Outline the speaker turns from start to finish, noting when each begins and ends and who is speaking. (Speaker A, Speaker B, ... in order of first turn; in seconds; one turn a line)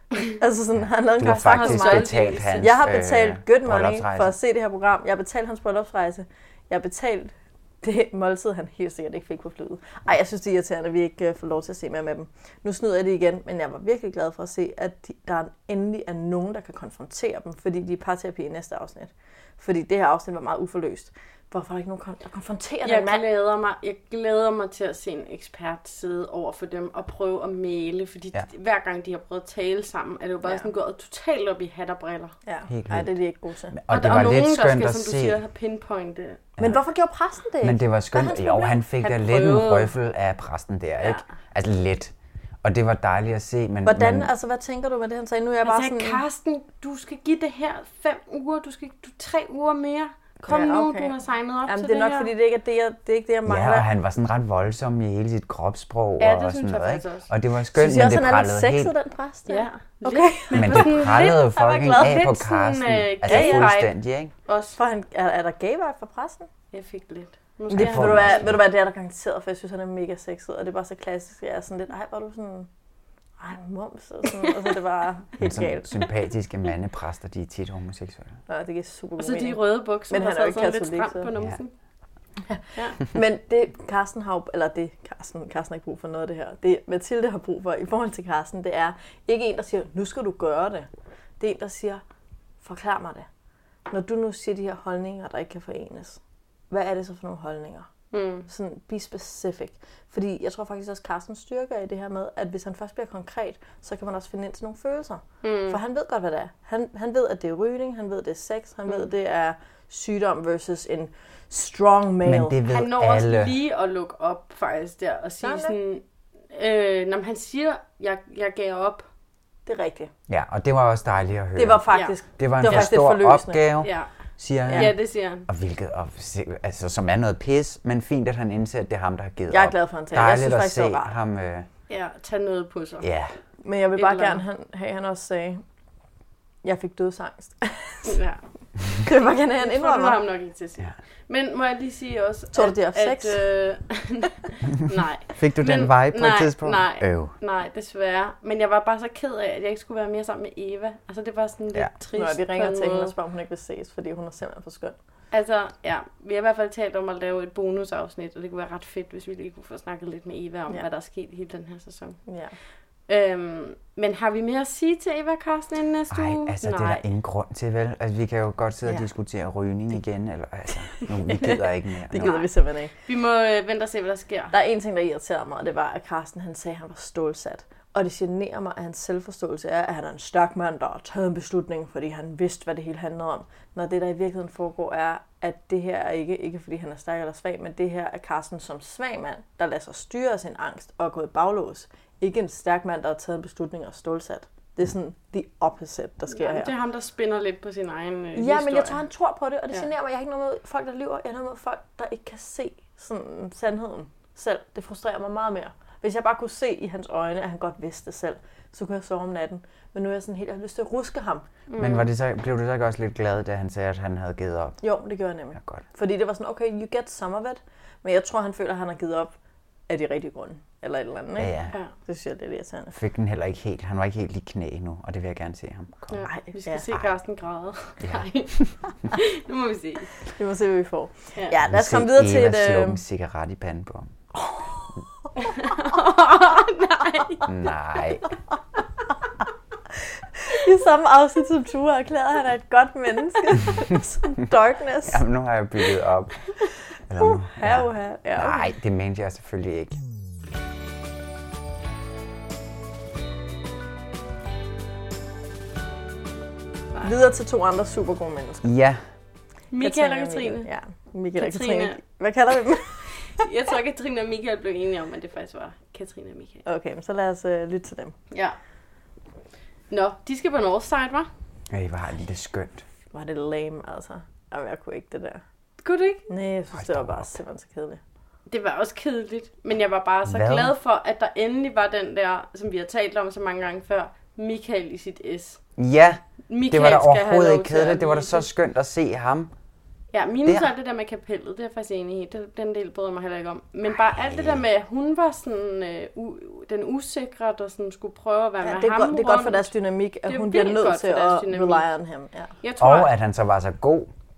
Speaker A: 0.2-23.2
Speaker B: 1.2-4.3
Speaker C: 1.2-2.7
Speaker C: 22.8-32.3
Speaker A: 32.5-33.8
Speaker B: 32.7-33.1
Speaker B: 33.7-35.4
Speaker C: 33.9-36.4
Speaker A: 36.6-38.8
Speaker B: 37.6-44.3
Speaker C: 39.0-39.9
Speaker A: 43.8-46.2
Speaker C: 45.6-52.3
Speaker A: 50.4-53.9
Speaker B: 53.4-58.9
Speaker C: 56.2-57.3
Speaker A: 57.7-61.4
Speaker C: 59.5-63.9
Speaker B: 60.5-64.3
Speaker A: 63.2-63.7
Speaker C: 64.5-64.8
Speaker A: 64.7-66.5
Speaker C: 66.7-68.5
Speaker B: 67.7-68.6
Speaker A: 67.7-72.7
Speaker A: 73.4-76.0
Speaker B: 75.4-78.4
Speaker A: 78.5-81.3
Speaker C: 79.2-81.7
Speaker A: 82.4-90.9
Speaker A: 91.4-92.0
Speaker A: 92.6-93.3
Speaker A: 93.9-96.2
Speaker A: 96.7-97.9
Speaker C: 98.1-98.5
Speaker A: 98.5-112.6
Speaker C: 105.4-105.8
Speaker B: 112.2-113.6
Speaker C: 112.7-119.1
Speaker A: 115.4-115.7
Speaker A: 119.7-120.1
Speaker B: 120.3-124.9
Speaker A: 121.5-123.6
Speaker C: 121.9-122.9
Speaker C: 123.8-124.1
Speaker C: 124.7-125.5
Speaker B: 125.5-131.7
Speaker A: 129.5-131.2
Speaker C: 131.9-133.1
Speaker B: 133.0-133.3
Speaker A: 133.6-135.6
Speaker C: 134.0-134.4
Speaker A: 136.6-138.2
Speaker C: 138.0-138.4
Speaker A: 138.9-140.2
Speaker C: 139.6-153.1
Speaker A: 142.5-143.4
Speaker B: 145.3-147.3
Speaker A: 152.1-154.9
Speaker C: 155.3-162.2
Speaker A: 162.3-162.5
Speaker C: 163.1-167.0
Speaker B: 166.1-172.3
Speaker A: 171.3-172.9
Speaker C: 172.2-174.5
Speaker A: 174.5-196.7
Speaker C: 196.3-199.0
Speaker A: 198.3-211.4
Speaker C: 211.7-212.1
Speaker B: 211.8-214.8
Speaker A: 214.8-219.3
Speaker B: 215.6-215.8
Speaker A: 219.9-222.9
Speaker B: 221.3-221.7
Speaker B: 222.9-226.2
Speaker C: 226.1-230.1
Speaker A: 226.3-226.8
Speaker B: 228.0-228.7
Speaker A: 230.3-233.0
Speaker B: 231.6-234.1
Speaker A: 234.5-234.8
Speaker C: 235.3-237.5
Speaker B: 237.4-238.2
Speaker A: 240.3-245.2
Speaker B: 245.0-246.4
Speaker B: 247.1-250.0
Speaker A: 247.2-248.7
Speaker A: 257.0-258.7
Speaker B: 258.6-259.0
Speaker C: 259.7-260.7
Speaker A: 259.8-263.3
Speaker C: 261.4-262.0
Speaker C: 263.2-266.6
Speaker A: 266.6-268.1
Speaker C: 268.3-268.6
Speaker C: 269.9-271.3
Speaker B: 271.7-272.8
Speaker A: 273.1-275.4
Speaker C: 275.8-276.3
Speaker A: 276.3-278.0
Speaker B: 276.7-277.4
Speaker C: 278.5-285.6
Speaker B: 280.2-280.7
Speaker B: 285.8-289.5
Speaker C: 286.5-288.5
Speaker C: 290.1-299.7
Speaker B: 294.0-294.6
Speaker A: 298.6-302.5
Speaker C: 300.2-301.8
Speaker C: 302.6-303.1
Speaker B: 302.8-304.1